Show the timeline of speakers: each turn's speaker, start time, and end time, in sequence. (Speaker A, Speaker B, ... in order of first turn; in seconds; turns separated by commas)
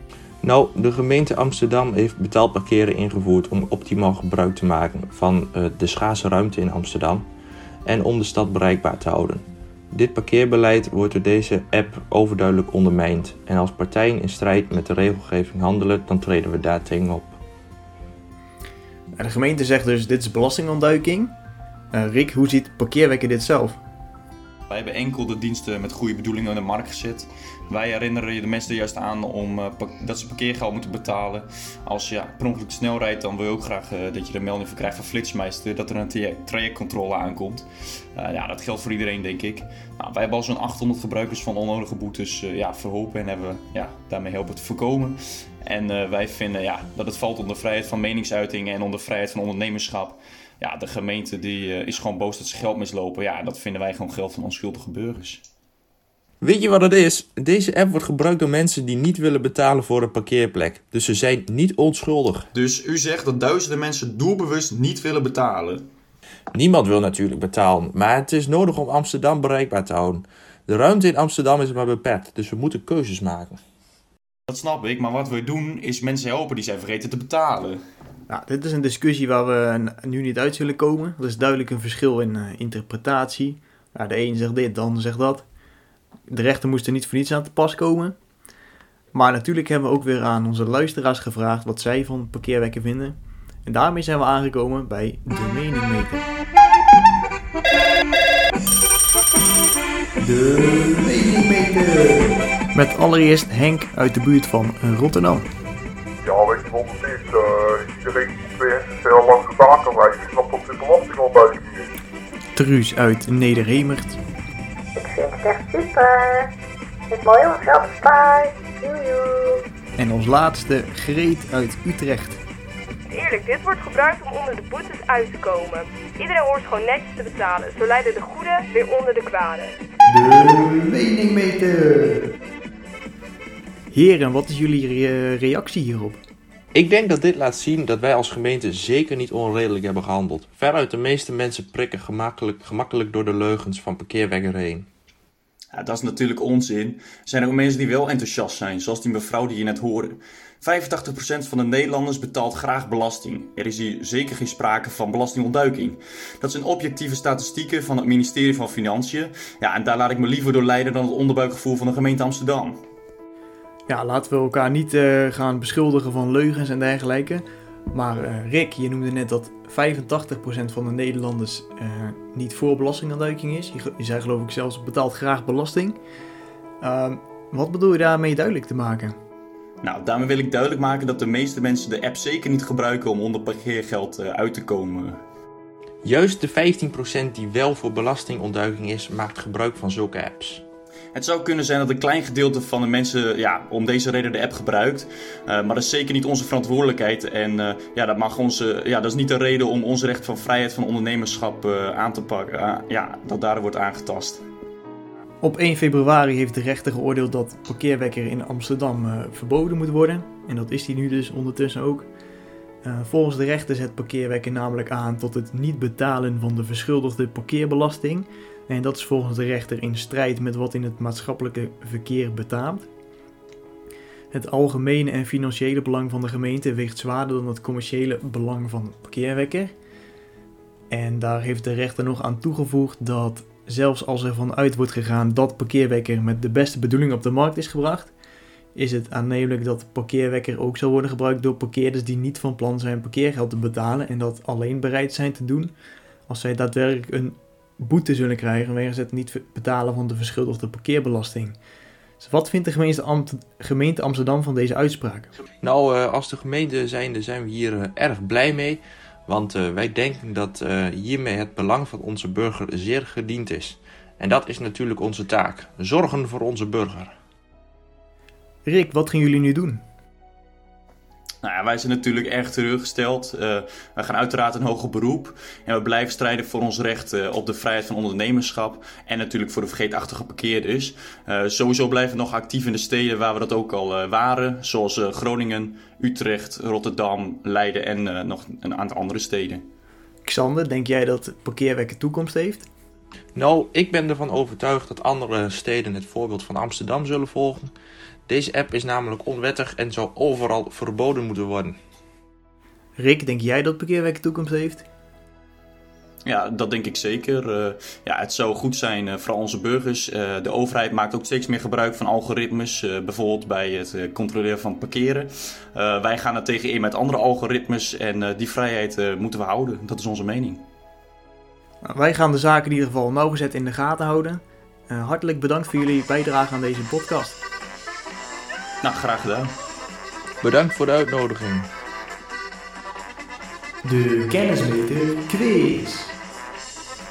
Speaker A: 0.4-7.2, Speaker A: 7.8-17.4, Speaker B: 19.2-21.3, Speaker B: 21.9-23.8, Speaker C: 24.7-55.4, Speaker A: 56.4-62.5, Speaker C: 62.5-65.8, Speaker A: 66.5-73.6, Speaker C: 74.5-77.8, Speaker B: 78.3-85.5, Speaker B: 86.3-88.1, Speaker B: 89.1-96.2, Speaker B: 100.2-105.5, Speaker D: 106.2-111.9, Speaker B: 112.5-114.2, Speaker E: 115.0-116.5, Speaker E: 117.1-119.6, Speaker B: 120.0-122.4, Speaker F: 123.1-129.7, Speaker B: 130.1-132.2, Speaker B: 133.9-136.2, Speaker A: 136.7-144.9, Speaker C: 145.7-162.8, Speaker B: 163.9-176.0, Speaker B: 176.8-179.1, Speaker C: 179.8-185.2, Speaker A: 186.0-190.6, Speaker C: 191.1-204.4, Speaker B: 205.4-212.1, Speaker B: 212.8-222.9, Speaker B: 224.3-229.7, Speaker B: 230.9-238.1, Speaker B: 238.7-245.7, Speaker B: 246.3-251.6, Speaker B: 252.2-255.3, Speaker A: 255.6-267.1, Speaker B: 268.6-269.8, Speaker C: 271.4-289.6, Speaker B: 290.2-292.7, Speaker A: 293.3-297.7, Speaker A: 298.3-301.8, Speaker B: 303.0-304.8, Speaker C: 306.2-320.6, Speaker B: 321.8-327.4, Speaker C: 328.8-329.5, Speaker A: 330.4-331.7, Speaker B: 333.8-336.1